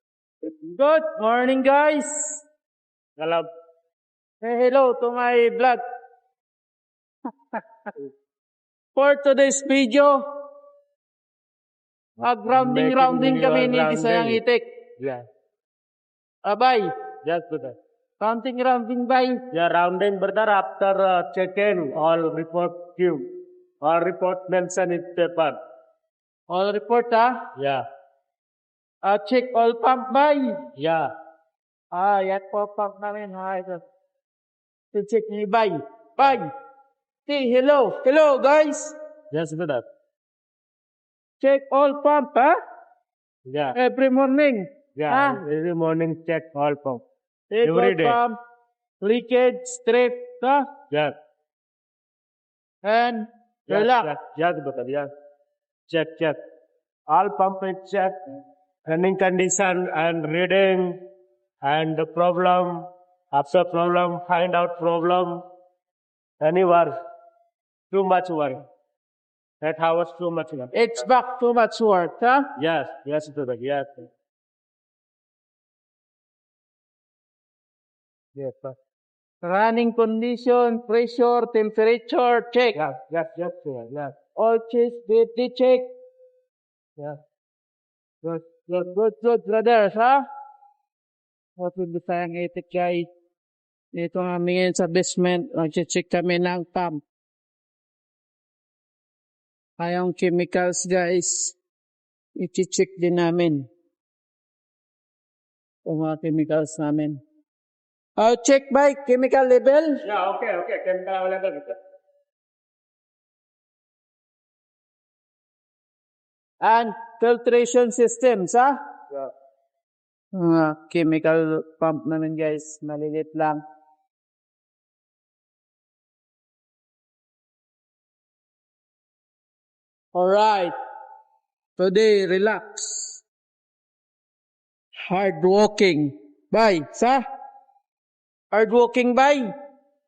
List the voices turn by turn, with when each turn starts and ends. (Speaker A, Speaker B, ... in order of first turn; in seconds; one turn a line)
Speaker A: 0.5-2.4
Speaker B: 3.2-3.5
Speaker A: 4.4-5.8
Speaker A: 8.9-10.2
Speaker A: 12.2-14.6
Speaker B: 12.5-14.4
Speaker A: 16.4-16.9
Speaker B: 17.2-17.8
Speaker A: 18.2-19.4
Speaker B: 19.5-23.2
Speaker B: 23.8-25.6
Speaker A: 26.5-27.3
Speaker B: 27.6-27.8
Speaker A: 29.0-30.6
Speaker B: 30.8-31.1
Speaker A: 31.9-33.8
Speaker A: 34.9-36.5
Speaker A: 37.2-38.9
Speaker B: 39.3-39.9
Speaker A: 41.4-42.5
Speaker B: 43.5-43.7
Speaker A: 43.7-45.4
Speaker B: 45.0-47.0
Speaker A: 47.5-48.4
Speaker B: 47.6-48.2
Speaker A: 49.0-50.6
Speaker B: 50.9-51.1
Speaker A: 52.8-54.1
Speaker B: 53.7-55.1
Speaker B: 55.9-56.4
Speaker B: 57.1-58.2
Speaker B: 58.9-61.0
Speaker B: 61.6-65.4
Speaker B: 66.4-66.9
Speaker B: 67.9-68.6
Speaker B: 69.6-70.7
Speaker A: 70.7-72.5
Speaker B: 72.5-74.1
Speaker B: 78.3-78.8
Speaker A: 79.4-82.8
Speaker B: 82.7-84.1
Speaker A: 84.3-85.9
Speaker B: 88.2-88.9
Speaker A: 88.8-90.2
Speaker A: 91.6-93.1
Speaker A: 93.9-97.0
Speaker A: 99.8-101.5
Speaker A: 102.3-103.7
Speaker A: 105.8-107.2
Speaker A: 108.2-110.0
Speaker B: 110.0-111.8
Speaker A: 116.6-118.8
Speaker A: 120.3-123.6
Speaker A: 130.1-130.7
Speaker A: 131.8-133.2
Speaker A: 135.1-137.2
Speaker A: 138.5-139.5